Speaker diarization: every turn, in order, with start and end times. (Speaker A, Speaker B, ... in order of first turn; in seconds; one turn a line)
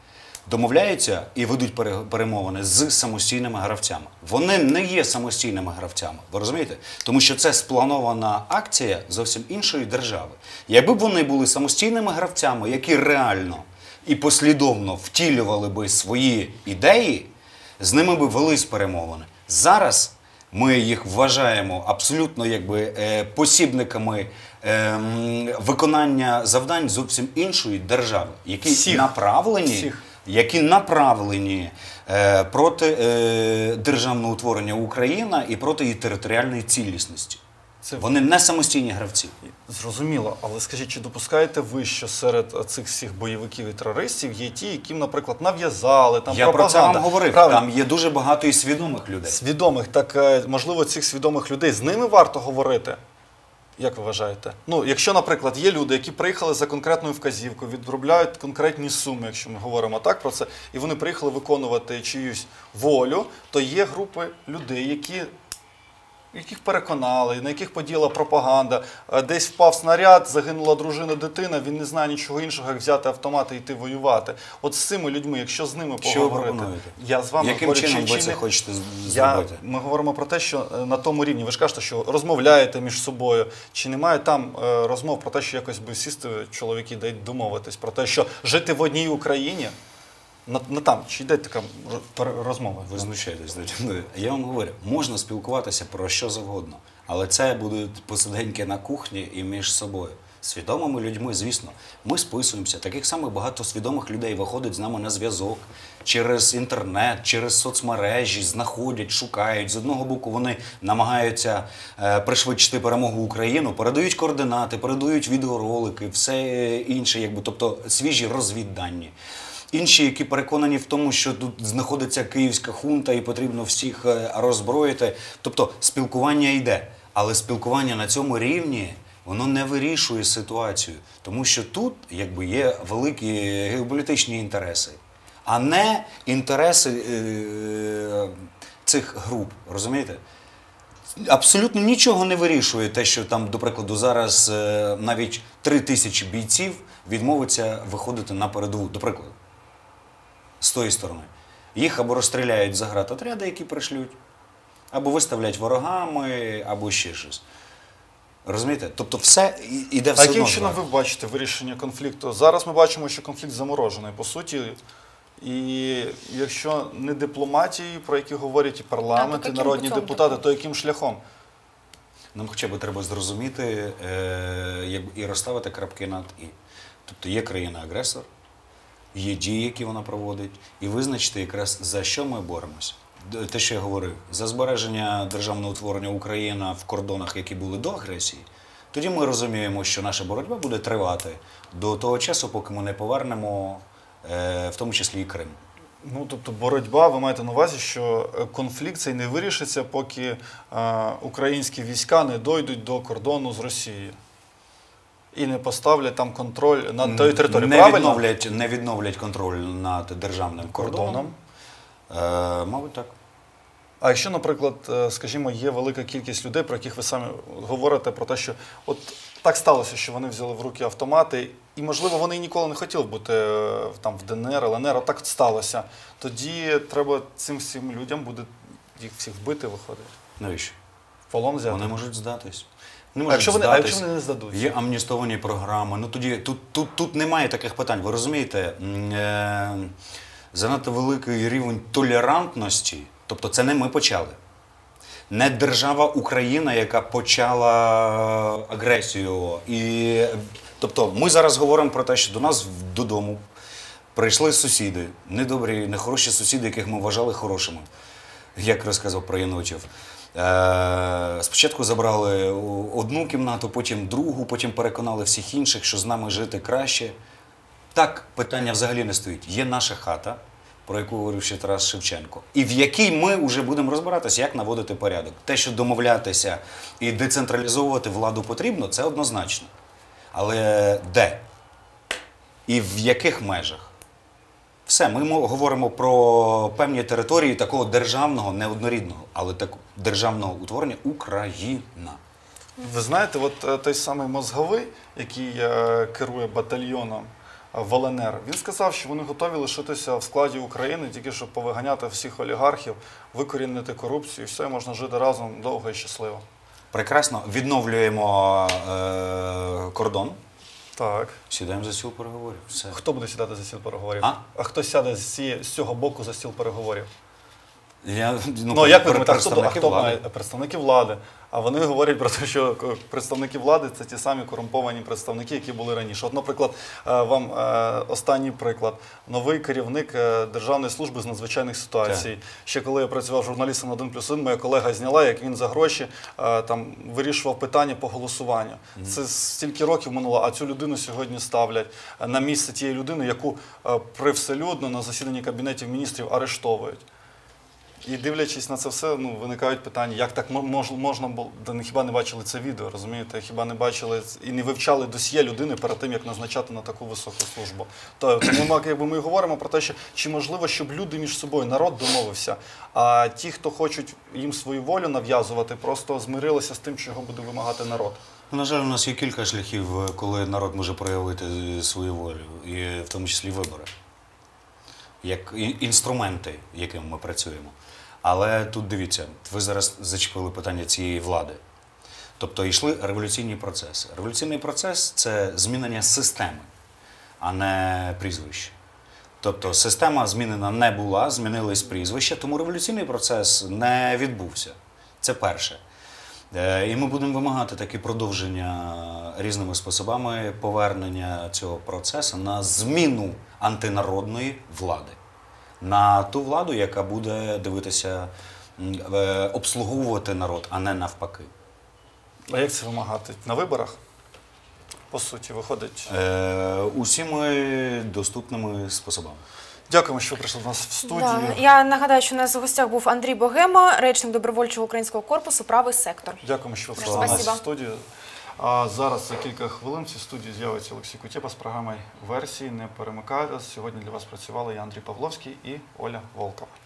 Speaker A: 0.4-37.4
Speaker B: 28.6-30.0
Speaker B: 37.8-38.1
Speaker A: 38.0-39.3
Speaker B: 39.5-47.7
Speaker A: 46.3-49.4
Speaker B: 49.2-53.0
Speaker B: 53.8-65.3
Speaker B: 66.3-78.4
Speaker A: 76.0-79.6
Speaker B: 79.0-89.7
Speaker B: 90.5-93.1
Speaker A: 92.9-119.1
Speaker A: 119.7-140.2
Speaker A: 141.2-149.3
Speaker A: 150.6-154.2
Speaker A: 154.9-157.4
Speaker A: 158.4-160.8
Speaker B: 160.2-164.8
Speaker B: 165.4-171.2
Speaker C: 169.1-170.4
Speaker A: 172.3-178.3
Speaker A: 179.1-195.6
Speaker B: 196.0-204.2
Speaker B: 205.3-208.2
Speaker A: 207.0-211.3
Speaker B: 210.7-211.4
Speaker A: 212.1-213.1
Speaker B: 214.0-230.1
Speaker A: 230.4-230.8
Speaker B: 231.3-231.9
Speaker A: 231.7-239.9
Speaker B: 233.3-234.7
Speaker A: 240.5-244.4
Speaker A: 245.3-253.4
Speaker A: 254.1-257.9
Speaker A: 258.5-267.1
Speaker A: 267.9-279.7
Speaker A: 280.3-281.4
Speaker A: 282.6-283.9
Speaker A: 284.9-292.2
Speaker B: 292.8-306.4
Speaker A: 306.9-310.4
Speaker B: 310.9-311.4
Speaker A: 311.5-313.0
Speaker B: 312.9-317.1
Speaker A: 318.0-320.2
Speaker B: 318.7-347.0
Speaker B: 348.0-368.2
Speaker A: 368.5-373.9
Speaker A: 375.2-381.6
Speaker A: 382.4-386.7
Speaker A: 387.4-388.7
Speaker A: 389.4-395.8
Speaker A: 396.5-405.2
Speaker A: 405.8-411.5
Speaker B: 412.5-414.0
Speaker B: 415.1-416.1
Speaker A: 416.1-419.4
Speaker B: 419.9-421.6
Speaker C: 421.0-426.4
Speaker B: 426.4-428.0
Speaker C: 427.0-427.6
Speaker A: 427.0-427.5
Speaker B: 428.6-436.7